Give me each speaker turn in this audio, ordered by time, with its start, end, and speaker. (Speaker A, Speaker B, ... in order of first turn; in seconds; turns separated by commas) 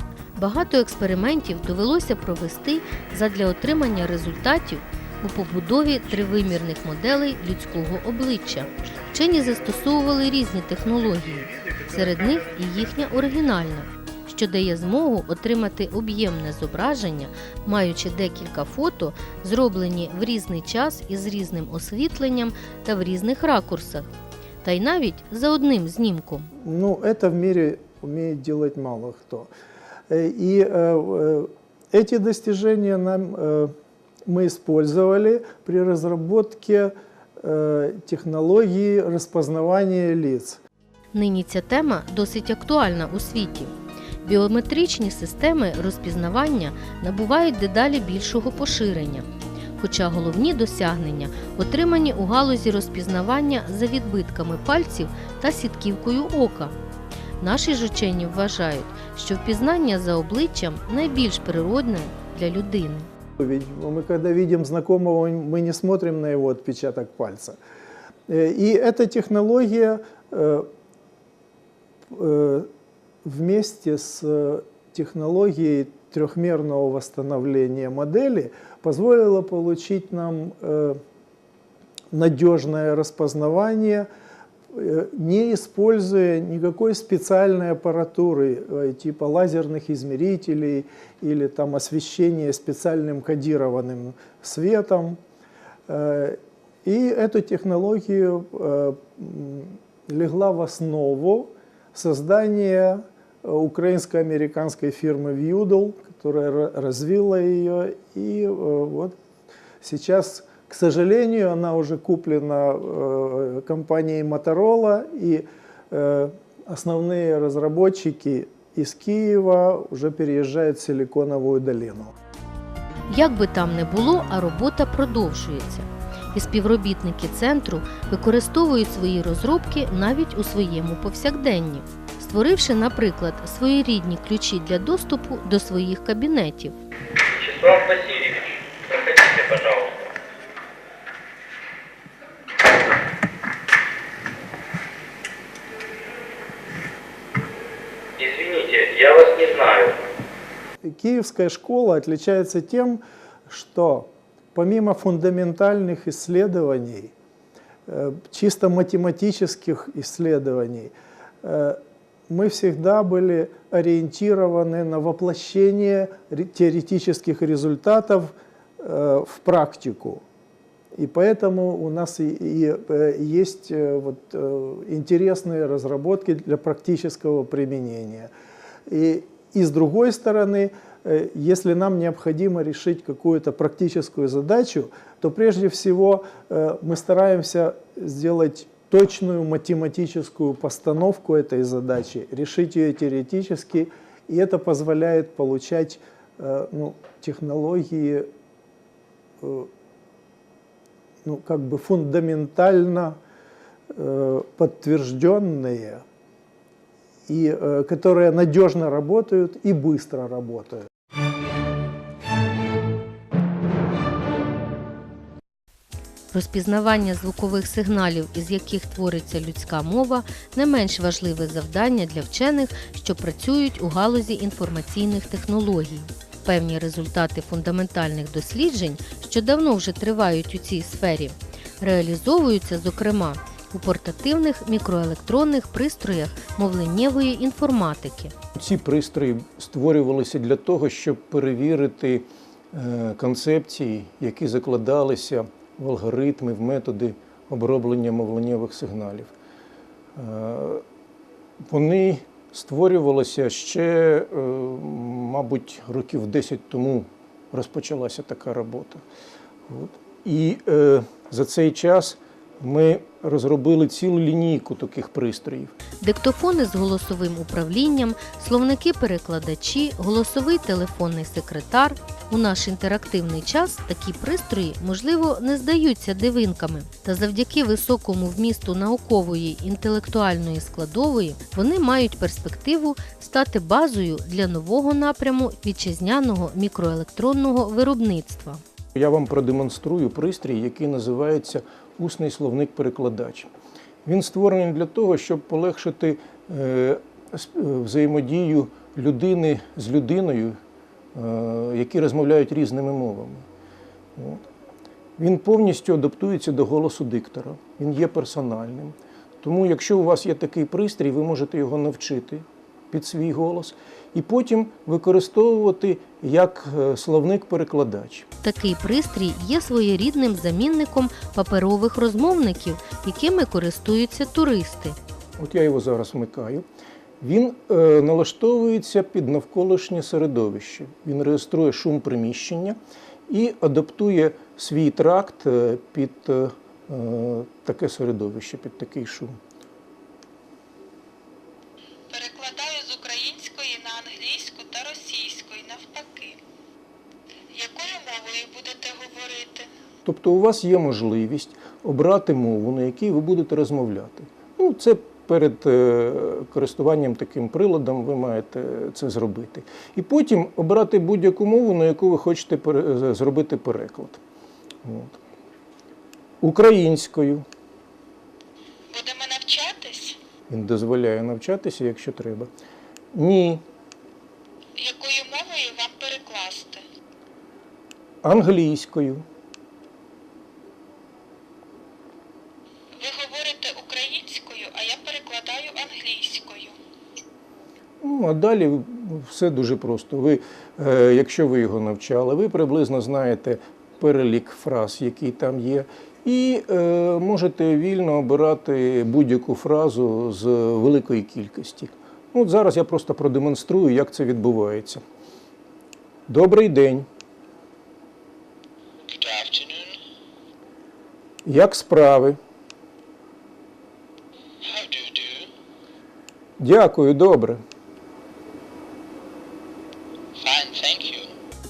Speaker A: 0.4-24.1, Speaker A: 24.6-26.5, Speaker B: 26.6-29.5, Speaker B: 30.1-33.7, Speaker B: 34.3-40.6, Speaker A: 41.1-43.7, Speaker A: 44.2-49.3, Speaker A: 49.8-56.8, Speaker A: 57.4-63.1, Speaker B: 63.4-67.6, Speaker B: 68.3-70.7, Speaker B: 72.1-72.7, Speaker B: 73.2-81.0, Speaker B: 82.1-84.1, Speaker B: 84.7-95.2, Speaker B: 95.9-109.2, Speaker B: 109.8-122.1, Speaker A: 123.1-136.8, Speaker C: 137.3-140.1, Speaker C: 148.2-150.0, Speaker B: 150.8-157.1, Speaker B: 157.9-170.2, Speaker B: 171.0-178.3, Speaker B: 178.9-198.3, Speaker B: 199.4-199.7, Speaker B: 201.2-203.2, Speaker B: 203.9-206.0, Speaker B: 207.3-210.9, Speaker A: 216.3-238.3, Speaker D: 238.6-249.3, Speaker D: 250.2-250.8, Speaker D: 251.7-259.0, Speaker D: 259.7-265.7, Speaker A: 266.0-288.6, Speaker D: 288.9-293.5, Speaker D: 294.1-300.6, Speaker D: 301.1-303.5, Speaker D: 304.2-304.4, Speaker D: 305.2-318.3, Speaker A: 318.4-325.0, Speaker D: 325.4-326.6, Speaker D: 327.2-332.8, Speaker D: 333.3-339.4, Speaker E: 342.1-346.4, Speaker E: 347.5-349.7, Speaker D: 350.1-364.2, Speaker D: 364.8-365.2, Speaker D: 366.4-367.4, Speaker E: 368.9-370.2, Speaker D: 370.5-372.5, Speaker D: 373.1-373.6, Speaker E: 374.8-376.8, Speaker D: 378.2-379.2, Speaker E: 383.0-386.8, Speaker D: 388.0-405.0, Speaker D: 406.3-407.1, Speaker F: 409.1-410.0, Speaker D: 411.4-412.4, Speaker F: 414.6-415.5, Speaker D: 416.6-417.6, Speaker F: 420.4-421.3